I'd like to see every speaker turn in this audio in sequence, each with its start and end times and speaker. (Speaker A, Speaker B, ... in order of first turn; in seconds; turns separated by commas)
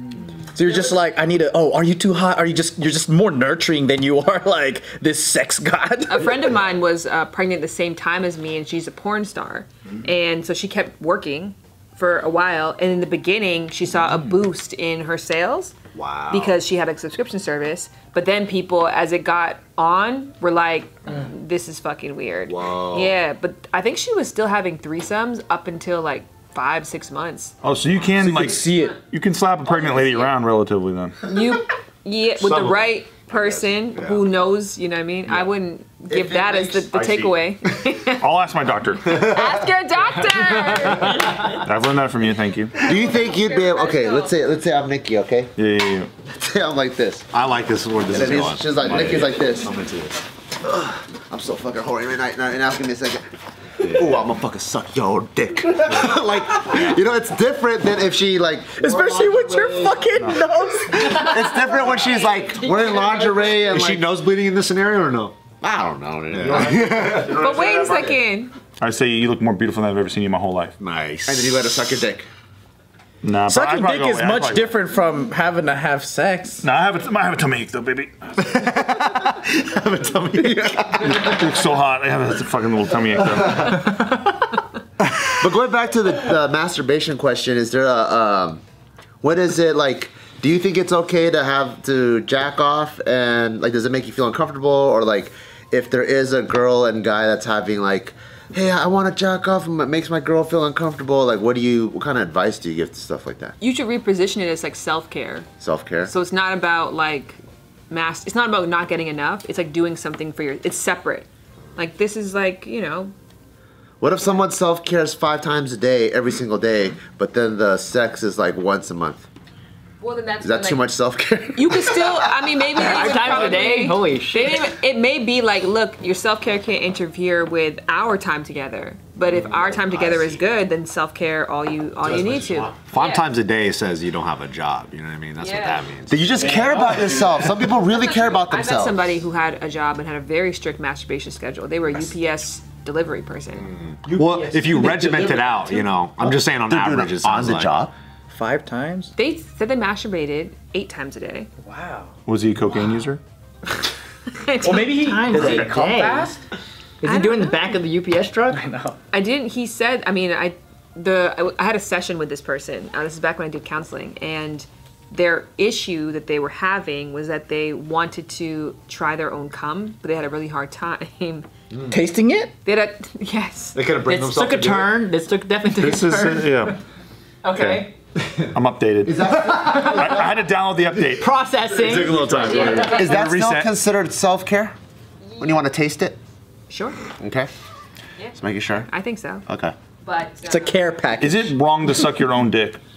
Speaker A: 0.5-6.5, Speaker B: 6.1-15.8, Speaker C: 15.9-16.6, Speaker B: 16.3-27.6, Speaker C: 22.5-23.1, Speaker D: 27.6-31.3, Speaker A: 28.2-29.0, Speaker B: 29.7-30.3, Speaker B: 31.2-38.2, Speaker C: 32.4-34.2, Speaker E: 36.1-36.9, Speaker D: 36.9-37.4, Speaker D: 38.1-39.3, Speaker B: 39.0-41.6, Speaker C: 39.2-39.6, Speaker D: 41.2-42.9, Speaker E: 42.8-45.5, Speaker B: 42.9-44.4, Speaker D: 45.6-46.1, Speaker E: 46.4-47.3, Speaker C: 47.3-50.2, Speaker E: 48.1-49.7, Speaker E: 50.6-53.2, Speaker E: 53.8-59.1, Speaker C: 55.9-56.9, Speaker A: 58.8-61.3, Speaker F: 59.2-59.9, Speaker D: 60.1-60.4, Speaker E: 60.9-64.1, Speaker B: 61.1-63.5, Speaker C: 63.6-65.3, Speaker E: 65.6-67.4, Speaker C: 66.3-67.4, Speaker D: 66.4-68.2, Speaker B: 67.3-68.5, Speaker D: 68.8-70.8, Speaker C: 70.8-71.7, Speaker E: 71.3-72.3, Speaker D: 73.2-74.7, Speaker A: 73.5-76.7, Speaker D: 76.6-78.6, Speaker E: 79.0-81.4, Speaker D: 81.0-84.0, Speaker E: 85.2-88.6, Speaker E: 89.2-103.6, Speaker B: 103.6-105.5, Speaker E: 105.6-106.1, Speaker B: 106.0-107.4, Speaker B: 107.9-113.1, Speaker E: 114.0-119.3, Speaker B: 120.0-120.9, Speaker E: 120.4-123.2, Speaker B: 121.5-133.3, Speaker F: 122.8-124.7, Speaker E: 129.7-130.4, Speaker C: 132.0-136.3, Speaker B: 135.4-135.9, Speaker E: 136.1-139.0, Speaker B: 137.9-143.7, Speaker C: 143.7-147.8, Speaker A: 144.1-145.8, Speaker E: 146.2-147.9, Speaker A: 148.3-149.1, Speaker B: 149.2-151.5, Speaker A: 151.6-152.1, Speaker D: 152.3-153.2, Speaker B: 154.4-155.4, Speaker A: 154.6-156.4, Speaker F: 154.7-156.3, Speaker F: 157.0-158.7, Speaker B: 157.0-157.8, Speaker A: 158.5-159.0, Speaker B: 159.1-171.5, Speaker A: 171.9-172.5, Speaker B: 172.7-173.8, Speaker C: 173.7-175.1, Speaker F: 174.0-176.8, Speaker D: 175.7-176.8, Speaker F: 177.4-177.9, Speaker D: 177.5-177.9, Speaker D: 178.5-181.3, Speaker E: 179.1-180.4, Speaker F: 181.2-182.8, Speaker C: 181.7-183.7, Speaker B: 182.4-183.2, Speaker E: 182.7-184.8, Speaker E: 185.4-186.2, Speaker B: 186.7-187.0, Speaker E: 187.2-187.5, Speaker E: 188.3-188.9, Speaker B: 188.9-189.4, Speaker E: 189.5-189.8, Speaker B: 190.0-190.8, Speaker A: 190.4-191.6, Speaker D: 191.2-192.8